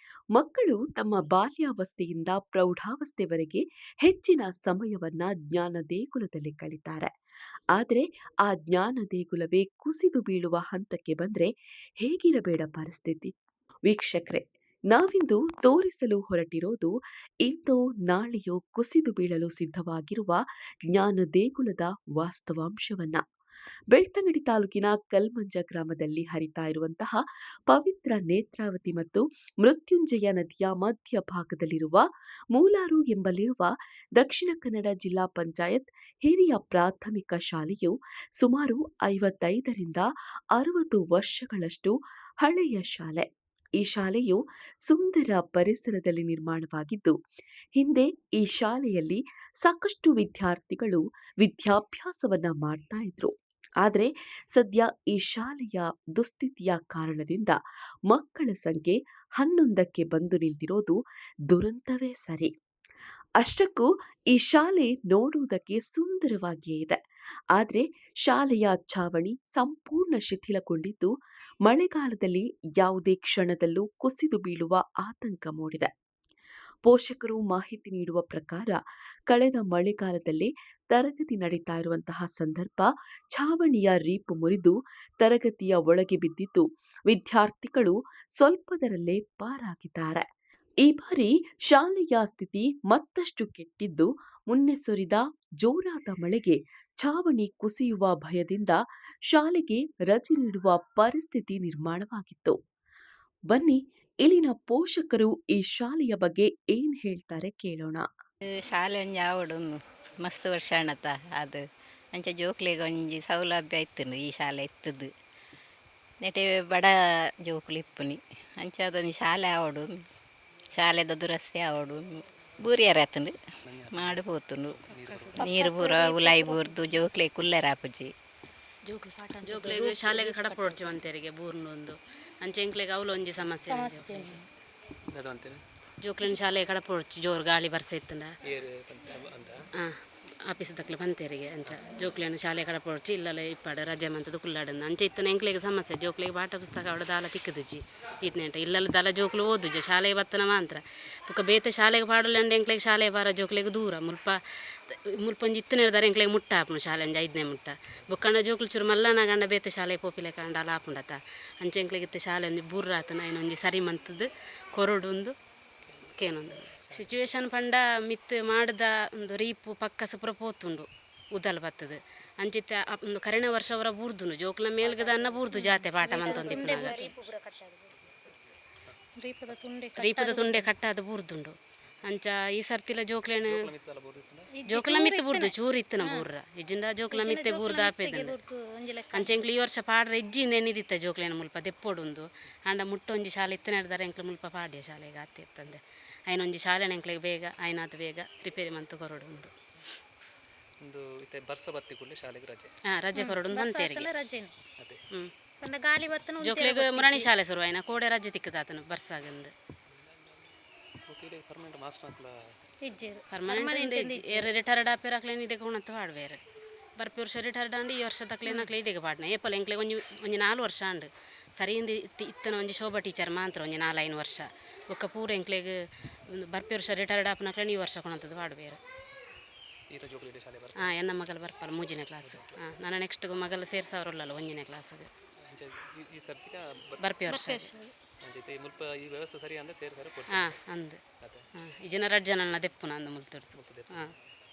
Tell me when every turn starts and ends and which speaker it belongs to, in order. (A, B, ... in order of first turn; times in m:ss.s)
0:00.3-0:07.1 A
0:07.7-0:13.3 A
0:13.8-0:23.2 A
0:23.9-0:43.3 A
0:43.8-0:47.1 A
0:47.7-0:57.6 A
0:58.1-1:01.0 A
1:01.5-1:02.5 A
1:03.4-1:07.0 A
1:07.5-1:11.1 A
1:11.6-1:15.9 A
1:16.8-1:30.2 A
1:30.8-1:42.6 A
1:43.5-1:48.0 A
1:48.5-1:55.1 B
1:56.2-2:00.0 B
2:00.7-2:04.8 B
2:03.7-2:05.5 C
2:04.9-2:06.9 D
2:05.4-2:08.1 B
2:08.8-2:11.0 D
2:09.4-2:14.4 E
2:13.6-2:14.4 D
2:15.1-2:15.6 C
2:16.0-2:18.3 E
2:18.5-2:19.6 C
2:20.5-2:45.3 E
2:45.8-2:47.4 C
2:46.2-2:57.1 E
2:54.9-2:57.9 D
2:56.4-2:56.8 B
2:59.2-3:00.7 D
3:00.0-3:03.7 E
3:03.5-3:04.5 C
3:04.5-3:06.2 D
3:04.7-3:08.4 E
3:07.1-3:09.4 D
3:09.1-3:19.5 E
3:20.8-3:22.7 C
3:22.9-3:24.1 E
3:23.2-3:24.5 D
3:25.6-3:27.3 D
3:26.4-3:29.5 E
3:29.9-3:30.5 C
3:31.1-3:32.5 C
3:32.8-3:34.5 D
3:33.3-3:36.4 E
3:37.0-3:45.7 E
3:46.3-3:48.8 E
3:49.9-3:50.9 C
3:50.8-3:55.1 E
3:52.2-3:52.8 C
3:55.4-3:57.2 C
3:57.0-3:57.7 E
3:57.3-3:57.9 D
3:58.2-4:00.5 C
4:00.3-4:01.0 E
4:01.6-4:04.1 E
4:03.5-4:04.3 C